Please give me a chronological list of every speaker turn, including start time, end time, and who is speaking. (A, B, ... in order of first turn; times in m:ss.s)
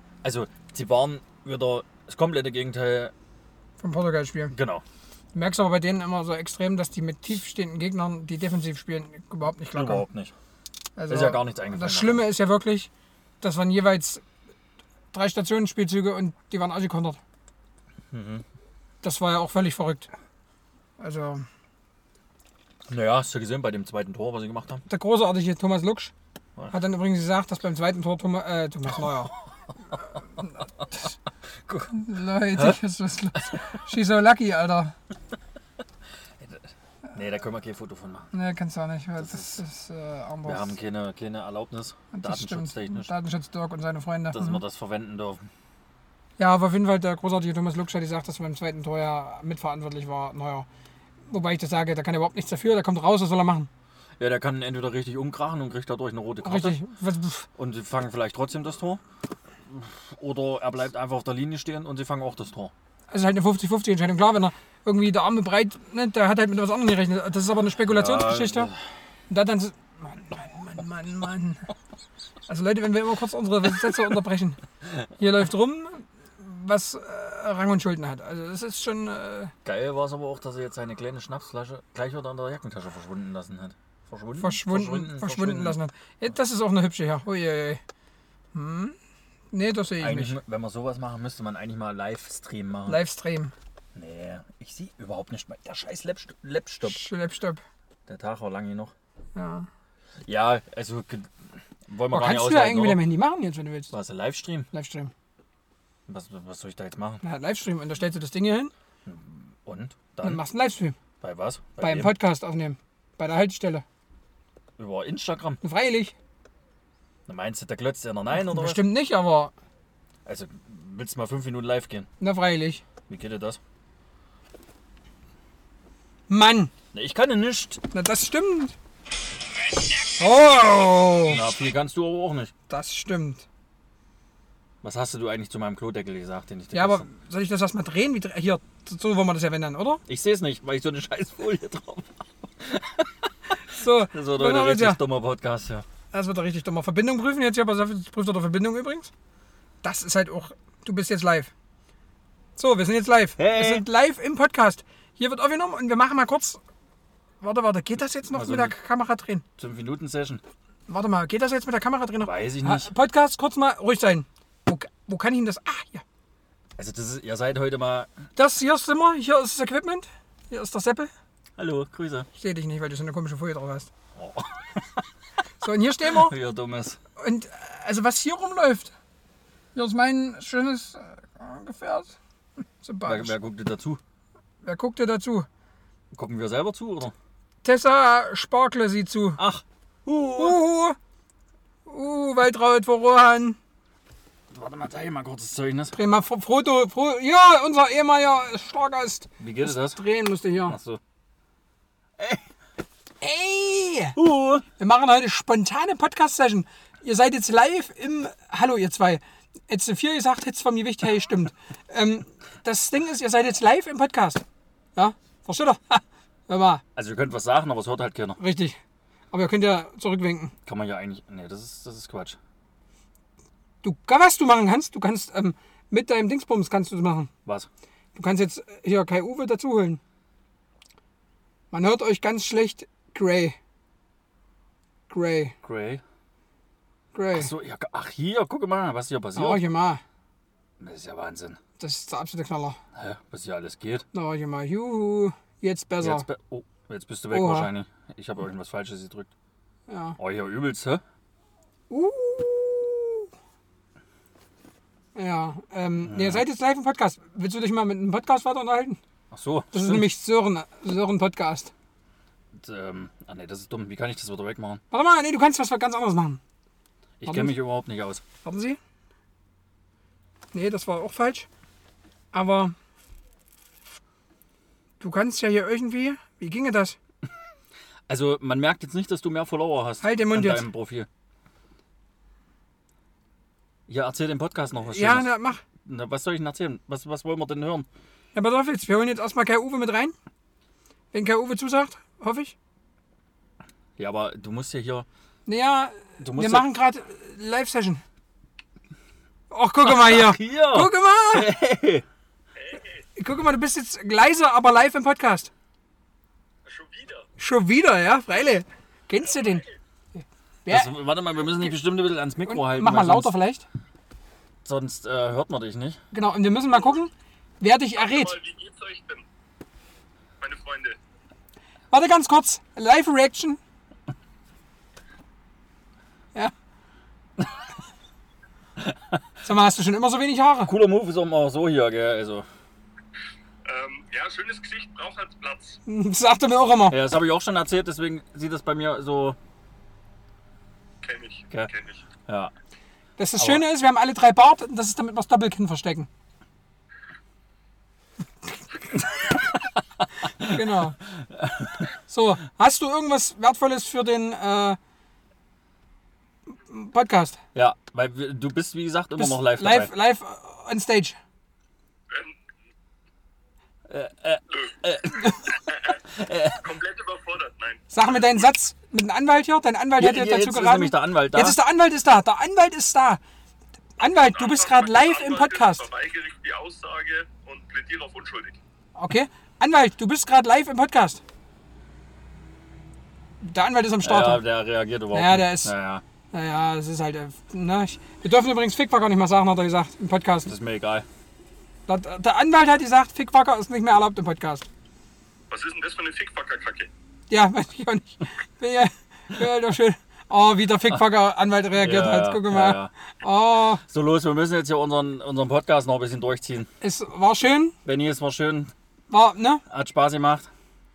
0:00.2-0:03.1 A
0:03.8-0:04.5 B
0:04.5-0:04.8 A
0:05.3-0:10.0 B
0:09.7-0:10.4 A
0:11.0-0:12.9 B
0:11.1-0:12.2 A
0:13.4-0:14.2 B
0:15.1-0:17.2 B
0:18.1-0:18.4 A
0:19.0-0:20.1 B
0:21.0-0:21.4 B
0:22.9-0:24.8 A
0:24.9-0:26.1 B
0:26.7-0:29.3 B
0:31.7-0:32.8 A
0:31.9-0:35.0 B
0:36.4-0:38.3 A
0:38.3-0:40.8 B
0:39.2-0:39.6 A
0:40.4-0:43.1 A
0:42.1-0:44.6 B
0:44.3-0:45.4 A
0:46.4-0:50.7 B
0:51.3-0:53.7 B
0:54.2-0:56.8 A
0:56.4-0:57.5 B
0:57.6-0:59.0 A
0:59.7-1:02.7 A
1:03.1-1:08.7 B
1:07.9-1:08.7 A
1:09.3-1:11.7 B
1:12.5-1:14.6 B
1:15.2-1:19.5 B
1:19.6-1:25.8 A
1:24.4-1:27.8 B
1:28.5-1:29.0 B
1:29.5-1:30.4 B
1:30.0-1:33.0 A
1:32.9-1:33.5 B
1:34.0-1:37.0 A
1:36.8-1:37.6 B
1:38.1-1:38.9 A
1:39.4-1:39.7 B
1:40.2-1:41.3 A
1:41.9-1:43.0 A
1:42.1-1:43.9 B
1:43.9-1:44.7 A
1:44.7-1:45.1 B
1:46.1-1:47.2 A
1:47.2-1:48.7 B
1:49.0-1:50.4 A
1:50.2-1:51.0 B
1:51.2-1:52.1 A
1:51.8-1:53.8 B
1:54.8-1:55.6 A
1:55.6-1:56.1 B
1:57.3-1:58.8 A
1:58.3-1:59.5 B
2:00.3-2:02.1 A
2:02.2-2:02.8 B
2:03.1-2:03.6 A
2:06.3-2:06.7 B
2:06.9-2:07.8 A
2:07.9-2:08.8 B
2:10.1-2:11.5 B
2:11.3-2:12.5 A
2:12.7-2:13.4 B
2:14.8-2:17.1 A
2:16.7-2:20.0 B
2:20.1-2:25.9 A
2:23.7-2:25.0 B
2:26.1-2:29.1 B
2:29.8-2:31.5 B
2:32.6-2:36.6 B
2:33.4-2:33.9 A
2:37.4-2:39.4 B
2:38.3-2:38.8 A
2:39.6-2:40.4 A
2:40.9-2:46.0 B
2:42.2-2:42.9 A
2:46.8-2:48.1 A
2:48.4-2:51.1 B
2:51.6-2:52.3 A
2:52.4-2:53.9 B
2:54.2-2:55.1 A
2:55.6-2:56.4 B
2:56.0-2:57.0 A
2:57.2-2:58.9 B
2:59.8-3:02.2 B
3:02.8-3:03.3 B
3:03.0-3:04.0 A
3:04.6-3:05.5 B
3:06.1-3:07.1 A
3:07.6-3:09.4 B
3:09.4-3:10.6 A
3:10.4-3:11.0 B
3:11.9-3:13.6 B
3:14.5-3:16.0 A
3:15.9-3:20.8 B
3:19.4-3:20.0 A
3:20.6-3:21.0 A
3:22.2-3:22.4 A
3:23.2-3:24.2 B
3:24.2-3:24.7 A
3:24.8-3:34.4 B
3:35.0-3:36.8 B
3:37.0-3:38.4 A
3:38.4-3:38.8 B
3:39.3-3:40.5 B
3:40.6-3:42.4 A
3:43.8-3:47.3 B
3:48.1-3:50.0 B
3:51.7-3:53.6 B
3:55.1-3:55.6 B
3:55.6-3:56.0 A
3:57.1-3:57.5 B
3:57.3-3:59.6 A
3:59.4-4:00.0 B
4:00.8-4:01.6 A
4:01.8-4:02.8 B
4:02.9-4:04.1 A
4:04.1-4:06.3 B
4:06.0-4:09.3 A
4:07.3-4:07.7 B
4:09.9-4:10.2 B
4:10.2-4:11.0 A
4:11.9-4:13.3 B
4:15.2-4:19.0 B
4:16.1-4:16.4 A
4:19.3-4:20.1 A
4:19.7-4:21.7 B
4:22.5-4:24.8 A
4:24.9-4:26.4 B
4:27.2-4:28.2 A
4:27.3-4:27.6 B
4:28.4-4:28.8 B
4:30.5-4:31.5 B
4:32.3-4:32.7 B
4:35.0-4:37.0 B
4:38.1-4:41.1 A
4:40.0-4:40.7 B
4:43.9-4:47.9 A
4:44.9-4:45.6 B
4:48.3-4:50.2 B
4:51.1-4:52.6 B
4:54.0-4:55.1 A
4:55.5-4:58.0 B
4:56.2-4:56.7 A
4:59.5-5:01.5 B
4:59.8-5:02.0 A
5:02.6-5:03.0 C
5:03.2-5:05.5 B
5:06.6-5:07.3 C
5:07.4-5:09.6 B
5:10.7-5:10.9 B
5:10.7-5:13.4 A
5:12.5-5:13.6 B
5:14.6-5:16.0 A
5:16.1-5:18.4 B
5:18.0-5:19.2 C
5:20.4-5:21.0 C
5:21.9-5:23.6 B
5:28.8-5:29.2 A
5:29.4-5:30.7 B
5:30.7-5:32.5 A
5:33.6-5:35.8 C
5:35.9-5:37.0 B
5:36.9-5:39.4 A
5:41.0-5:42.1 C
5:42.3-5:42.5 A
5:43.2-5:46.1 B
5:49.3-5:49.7 A
5:50.2-5:51.9 A
5:50.4-5:51.0 B
5:52.1-5:54.8 B
5:56.7-5:57.4 B
5:57.5-5:59.9 A
5:59.2-6:01.2 B
6:02.1-6:02.4 C
6:03.9-6:06.7 A
6:04.5-6:04.8 C
6:05.4-6:06.0 C
6:06.6-6:08.4 C
6:07.9-6:13.2 B
6:10.0-6:11.6 A
6:14.0-6:15.9 B
6:14.0-6:18.6 C
6:19.0-6:21.2 B
6:23.4-6:24.4 B
6:24.0-6:26.0 A
6:25.1-6:25.7 B
6:26.3-6:30.5 B
6:30.5-6:31.1 A
6:31.9-6:34.7 B
6:35.5-6:36.9 C
6:37.3-6:43.8 B
6:41.7-6:42.9 A
6:43.8-6:46.7 A
6:46.8-6:47.8 B
6:47.8-6:48.7 A
6:49.1-6:49.6 B
6:49.7-6:50.5 A